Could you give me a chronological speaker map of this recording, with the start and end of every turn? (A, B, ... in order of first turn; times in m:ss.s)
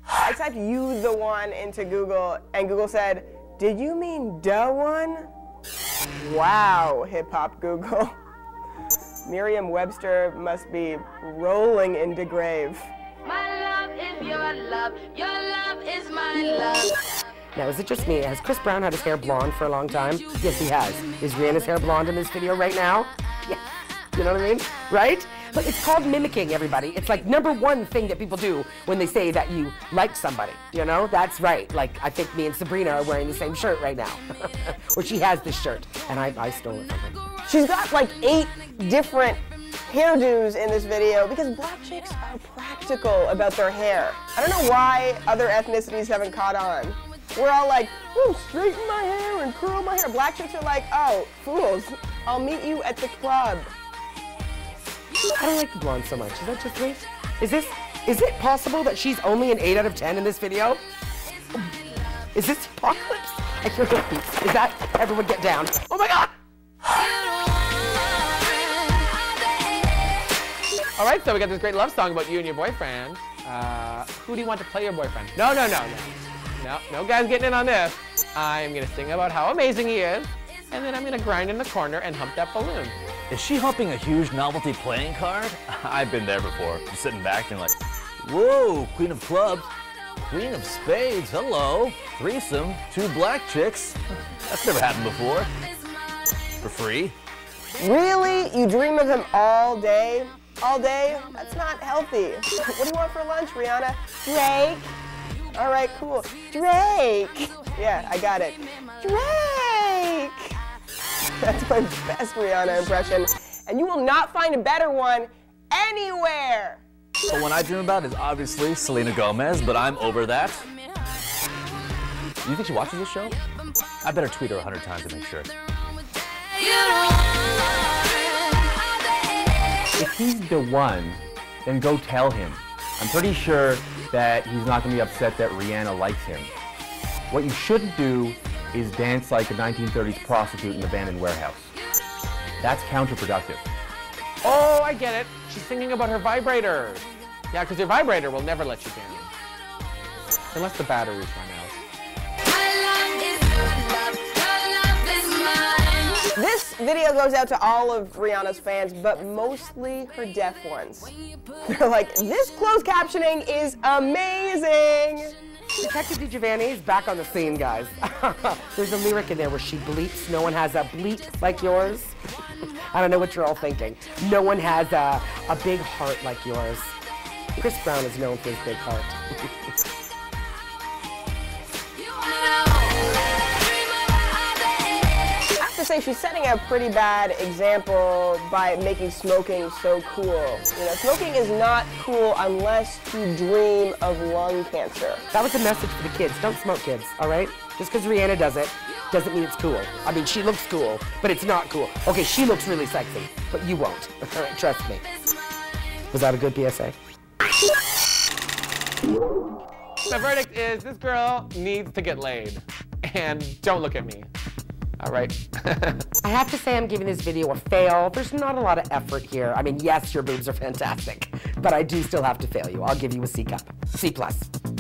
0:00.2-0:05.3 A
0:06.2-0:08.2 A
0:09.3-0:12.9 A
0:13.2-0:17.1 B
0:17.6-0:37.2 C
0:37.5-0:53.7 A
0:55.2-1:00.8 C
1:02.3-1:05.8 C
1:05.9-1:06.3 D
1:11.0-1:23.0 D
1:23.3-1:29.7 E
1:30.3-1:35.5 E
1:36.6-1:37.2 E
1:37.8-1:45.0 A
1:45.5-1:50.6 A
1:51.4-1:56.8 A
1:57.3-2:00.7 E
2:02.4-2:03.4 E
2:04.0-2:05.5 E
2:06.9-2:07.2 B
2:10.0-2:16.5 F
2:17.3-2:21.7 F
2:22.6-2:23.6 F
2:24.4-2:29.3 D
2:30.5-2:31.8 D
2:32.4-2:36.2 B
2:36.3-2:45.4 A
2:45.8-2:52.2 C
2:52.9-2:57.0 C
2:57.6-2:59.2 C
3:02.0-3:03.2 B
3:03.8-3:04.5 B
3:05.6-3:15.2 A
3:15.3-3:25.1 C
3:26.1-3:27.0 C
3:30.1-3:34.3 D
3:35.0-3:36.1 D
3:36.2-3:44.5 C